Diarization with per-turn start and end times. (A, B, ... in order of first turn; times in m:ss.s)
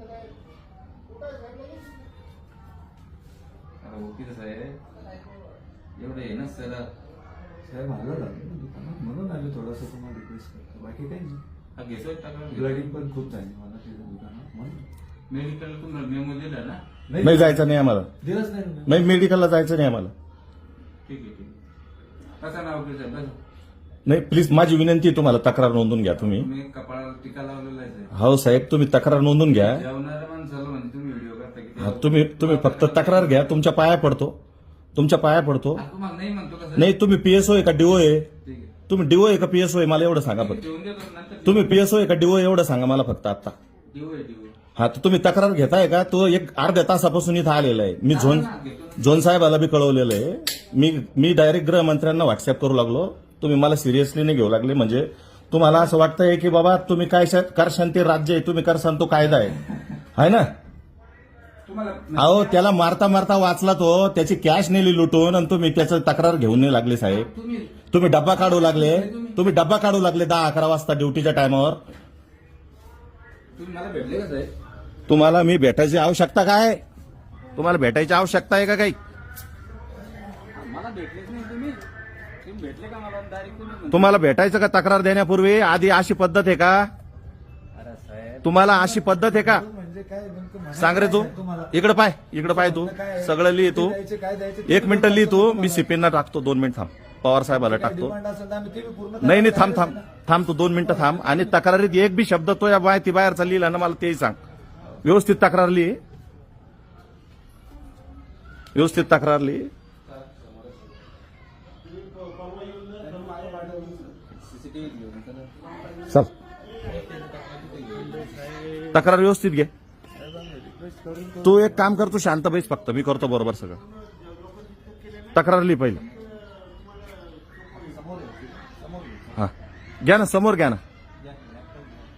0:03.8-0:04.8 A
0:06.0-0:06.9 A
0:07.6-0:11.4 B
0:11.8-0:12.9 A
0:12.5-0:14.8 B
0:15.3-0:16.8 A
0:17.1-0:17.6 B
0:17.2-0:18.1 C
0:18.2-0:19.1 B
0:18.8-0:20.1 C
0:21.0-0:21.6 A
0:22.4-0:23.4 A
0:24.0-0:26.5 C
0:26.2-0:28.1 A
0:28.1-0:29.8 C
0:29.5-0:33.6 A
0:31.8-0:34.4 C
0:34.9-0:35.8 C
0:35.8-0:37.0 A
0:36.8-0:38.3 C
0:38.4-0:38.7 A
0:38.9-0:40.6 C
0:40.3-0:41.7 A
0:41.4-0:43.5 C
0:43.9-0:44.5 A
0:44.8-0:59.6 C
0:48.1-0:49.2 A
1:00.2-1:00.5 C
1:01.6-1:02.7 A
1:02.2-1:07.3 C
1:07.1-1:09.5 A
1:07.9-1:11.8 C
1:13.6-1:14.5 A
1:15.1-1:16.8 C
1:17.6-1:19.0 C
1:20.5-1:21.8 A
1:22.4-1:24.2 A
1:23.9-1:26.9 C
1:27.7-1:28.5 A
1:28.4-1:29.6 C
1:28.6-1:31.7 B
1:30.7-1:34.0 C
1:32.4-1:35.9 B
1:34.6-1:38.1 C
1:37.5-1:40.0 B
1:39.2-1:44.4 C
1:40.8-1:41.4 B
1:45.0-1:46.0 C
1:48.7-1:49.7 C
1:53.0-1:54.1 B
1:54.5-1:55.5 A
1:56.8-1:58.5 A
1:58.9-1:59.7 C
2:00.1-2:02.0 B
2:01.4-2:03.8 C
2:05.3-2:06.0 C
2:07.7-2:09.4 B
2:09.4-2:10.8 C